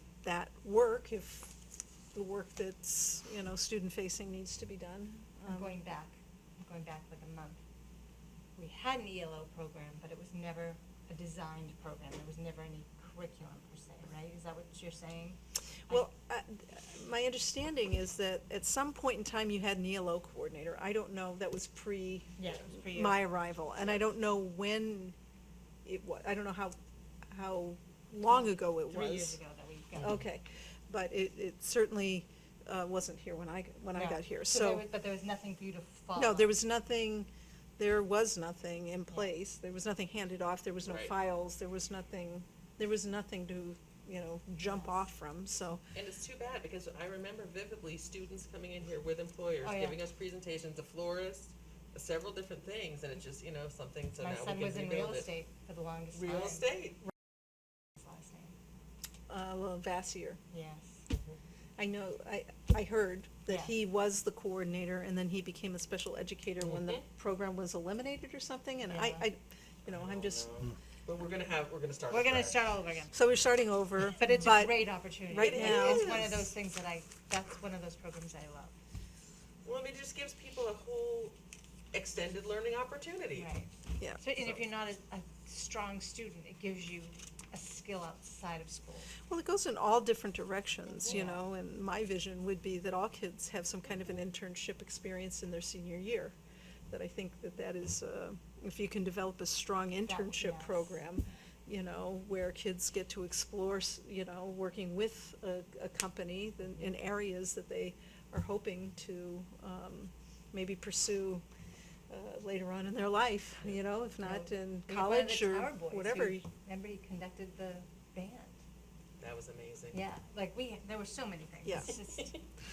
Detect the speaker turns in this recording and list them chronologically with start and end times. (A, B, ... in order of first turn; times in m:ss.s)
0:00.2-0:01.5 A
0:02.1-0:05.8 A
0:05.5-0:07.6 B
0:08.6-0:16.1 B
0:15.9-0:25.2 A
0:22.4-0:23.2 B
0:25.8-0:26.8 A
0:27.3-0:29.4 A
0:28.3-0:30.2 B
0:30.0-0:34.8 A
0:33.9-0:36.6 B
0:36.2-0:45.8 A
0:40.8-0:41.1 C
0:44.7-0:44.9 B
0:45.9-0:55.3 C
0:49.6-0:50.0 B
0:54.2-0:56.7 B
0:56.1-0:57.0 C
0:58.0-0:58.5 B
0:59.3-1:00.4 A
1:00.5-1:01.4 B
1:01.8-1:10.5 A
1:03.5-1:03.8 B
1:06.6-1:07.0 C
1:08.8-1:09.3 B
1:09.9-1:12.6 C
1:12.1-1:13.1 B
1:13.1-1:16.1 A
1:14.1-1:18.7 B
1:15.4-1:16.5 C
1:19.6-1:21.4 C
1:21.9-1:23.5 C
1:23.4-1:29.1 B
1:29.3-1:36.4 A
1:31.0-1:31.4 B
1:36.9-1:51.4 A
1:40.0-1:40.9 B
1:52.1-1:56.4 A
1:54.2-1:58.6 B
1:59.2-2:00.0 C
1:59.9-2:02.3 B
2:01.6-2:01.9 A